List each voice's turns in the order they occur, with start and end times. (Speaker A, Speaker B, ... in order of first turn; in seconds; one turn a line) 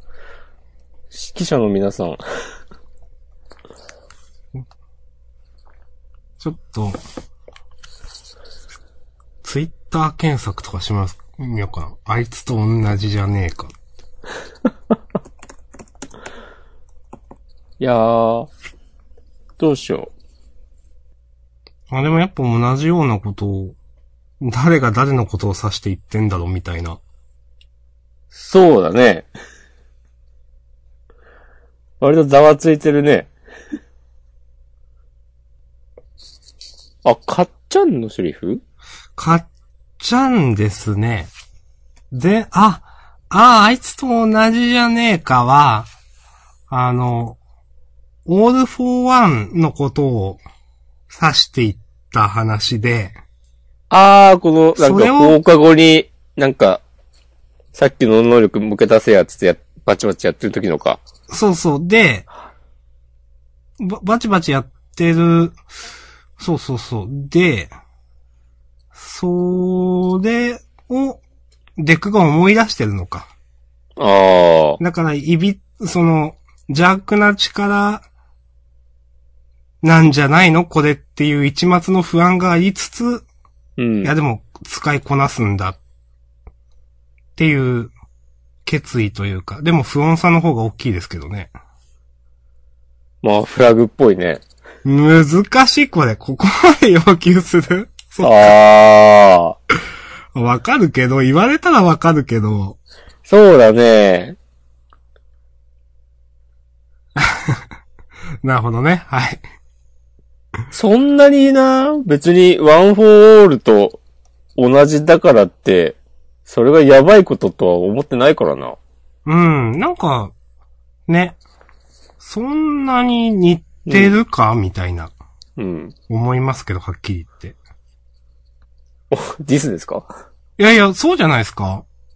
Speaker A: 1.1-2.2
Speaker B: 6.4-7.0
Speaker B: 9.4-13.7
Speaker A: 17.8-18.5
Speaker A: 19.6-20.1
Speaker B: 21.9-23.8
Speaker B: 24.4-27.0
Speaker A: 28.3-29.3
Speaker A: 32.0-33.3
Speaker A: 37.0-38.6
Speaker B: 39.2-39.5
Speaker B: 40.0-41.3
Speaker B: 42.1-45.9
Speaker B: 46.7-47.4
Speaker B: 48.2-50.4
Speaker B: 51.1-53.1
Speaker A: 53.9-56.8
Speaker B: 54.8-55.4
Speaker A: 57.7-61.0
Speaker B: 61.3-62.3
Speaker B: 63.8-65.6
Speaker B: 66.4-67.7
Speaker B: 68.9-71.2
Speaker B: 71.8-73.3
Speaker A: 74.0-74.8
Speaker B: 74.8-78.0
Speaker B: 79.8-83.2
Speaker A: 83.8-84.1
Speaker B: 84.0-85.8
Speaker B: 87.3-87.9
Speaker B: 88.6-91.5
Speaker A: 93.2-94.4
Speaker B: 94.8-98.5
Speaker A: 98.2-99.6
Speaker B: 100.3-102.8
Speaker A: 103.2-104.4
Speaker B: 107.2-107.6
Speaker B: 108.4-109.4
Speaker A: 110.7-114.0
Speaker A: 114.6-118.8
Speaker B: 119.2-120.3
Speaker B: 121.1-121.4
Speaker B: 122.2-125.1
Speaker A: 123.9-124.2
Speaker A: 125.6-125.9
Speaker B: 126.1-127.5
Speaker A: 129.1-130.1
Speaker B: 130.6-131.8